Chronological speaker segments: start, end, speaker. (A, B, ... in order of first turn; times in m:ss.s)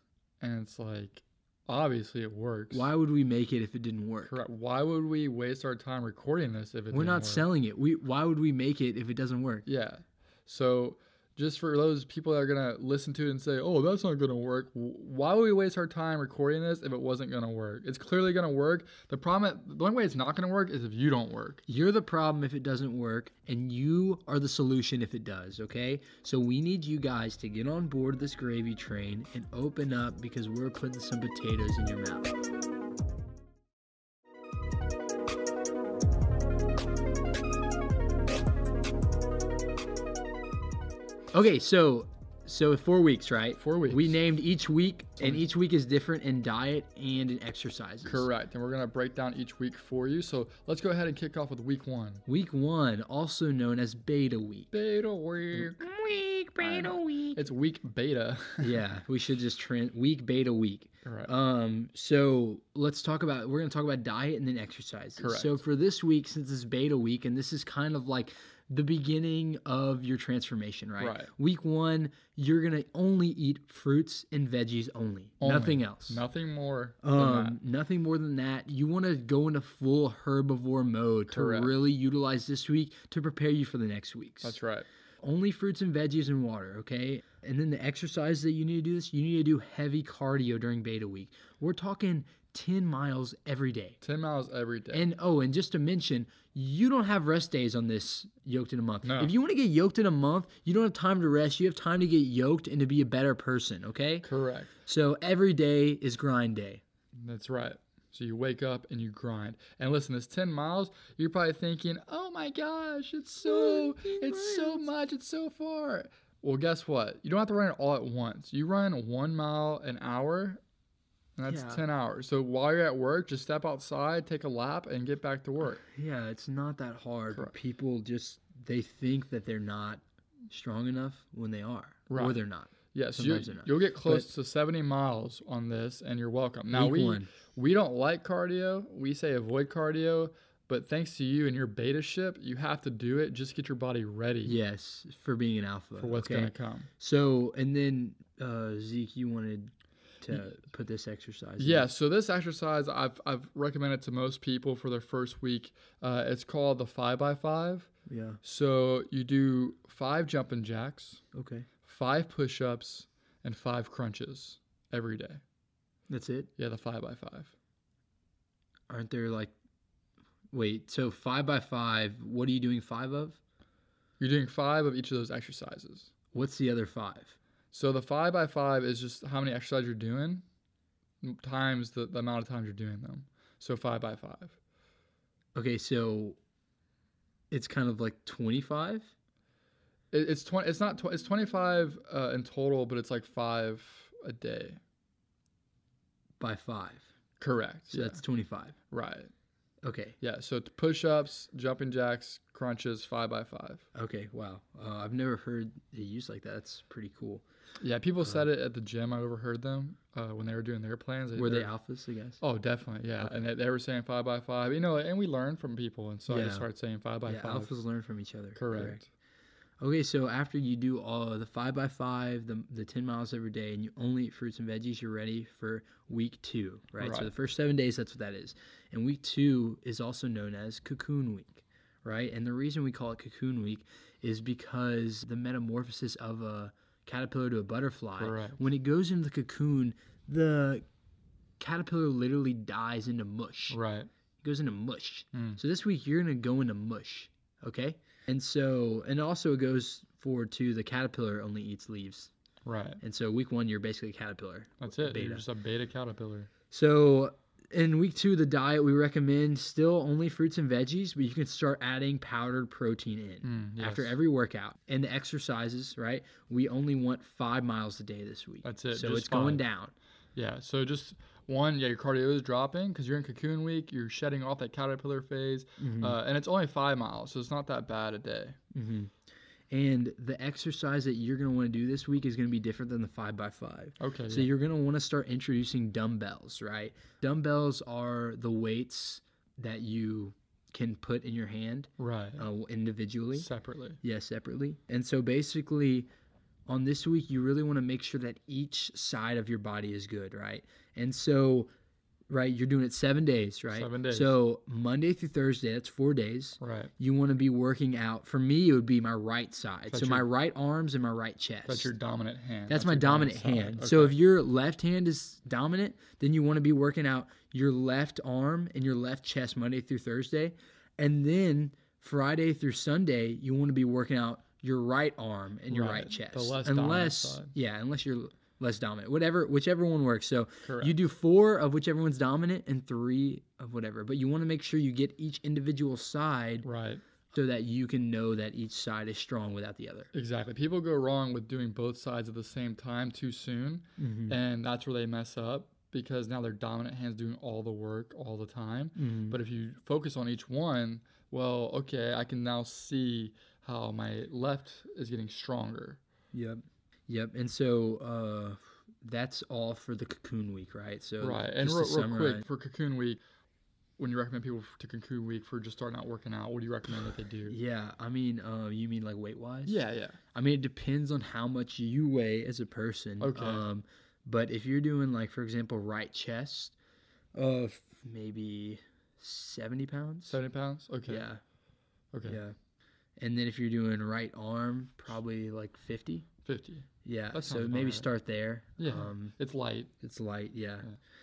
0:00.4-0:02.9 A
0:02.7-0:04.4 B
0:04.2-0:07.5 A
0:06.9-0:09.7 B
0:09.7-0:21.6 A
0:21.7-0:32.3 B
0:41.3-0:48.3 B
0:43.6-0:44.2 A
0:48.0-0:52.2 A
0:52.3-0:54.7 B
0:54.7-0:55.8 A
0:55.5-0:57.4 B
0:56.6-0:58.8 A
0:58.6-1:16.2 B
1:01.0-1:01.3 A
1:05.2-1:05.6 A
1:11.0-1:11.3 A
1:15.4-1:17.6 A
1:17.0-1:24.6 B
1:21.3-1:21.8 A
1:24.4-1:24.9 A
1:25.2-1:34.0 B
1:34.0-1:35.1 A
1:34.9-1:44.3 B
1:39.0-1:39.3 A
1:44.2-1:44.8 A
1:44.8-1:46.8 B
1:47.2-2:00.6 A
1:53.4-1:54.9 B
2:01.4-2:05.8 A
2:01.5-2:01.8 B
2:05.8-2:14.3 B
2:12.1-2:24.6 A
2:16.7-2:17.3 B
2:24.4-2:31.9 B
2:26.0-2:26.9 A
2:31.6-2:37.9 A
2:38.1-2:38.4 B
2:38.4-2:41.2 A
2:41.3-2:41.7 B
2:41.8-2:45.4 A
2:46.1-2:46.5 B
2:46.6-2:47.5 A
2:48.9-2:49.6 B
2:50.5-2:53.4 B
2:54.2-2:56.1 A
2:56.3-2:57.4 B
2:57.7-3:00.4 A
3:01.2-3:04.6 A
3:05.6-3:06.4 B
3:07.5-3:09.1 B
3:10.1-3:14.8 A
3:16.4-3:17.1 B
3:17.4-3:18.2 A
3:17.9-3:18.7 B
3:18.9-3:19.3 A
3:19.8-3:20.2 B
3:20.2-3:23.8 A
3:24.0-3:27.4 B
3:27.8-3:31.7 A
3:31.4-3:32.4 B
3:32.4-3:37.7 A
3:36.3-3:36.7 B
3:37.3-3:39.0 B
3:38.6-3:39.1 A
3:39.8-4:00.8 B
3:47.0-3:47.3 A
3:58.2-3:58.6 A
4:01.6-4:03.8 B
4:03.7-4:04.1 A
4:04.4-4:12.3 B
4:05.3-4:05.6 A
4:12.6-4:13.0 A
4:13.0-4:15.5 B
4:14.8-4:16.5 A
4:16.7-4:30.0 B
4:23.4-4:24.2 A
4:28.6-4:29.7 A
4:30.4-4:38.6 A
4:35.8-4:36.2 B
4:38.7-4:39.1 B
4:39.7-4:53.5 B
4:44.0-4:44.5 A
4:52.0-4:52.4 A
4:53.3-4:54.0 A
4:54.0-4:56.1 B
4:56.7-5:01.7 B
5:02.3-5:11.9 B
5:03.7-5:04.4 A
5:06.6-5:06.9 A
5:09.9-5:10.3 A
5:11.7-5:14.2 A
5:12.7-5:36.7 B
5:25.7-5:27.5 A
5:30.6-5:31.0 A
5:36.6-5:37.0 A
5:37.3-5:40.1 B
5:40.1-5:56.0 A
5:44.0-5:44.4 B
5:49.0-5:49.4 B
5:56.3-6:02.4 B
6:01.2-6:03.2 A
6:04.0-6:07.6 A
6:07.5-6:09.8 B
6:09.7-6:10.2 A
6:10.3-6:16.8 B
6:13.2-6:13.7 A
6:17.3-6:20.4 B
6:20.3-6:21.3 A
6:21.1-6:21.4 B
6:22.1-6:22.4 A
6:22.2-6:22.6 B
6:23.2-6:26.3 B
6:26.4-6:28.1 A
6:27.0-6:29.4 B
6:28.8-6:30.0 A
6:30.0-6:30.9 B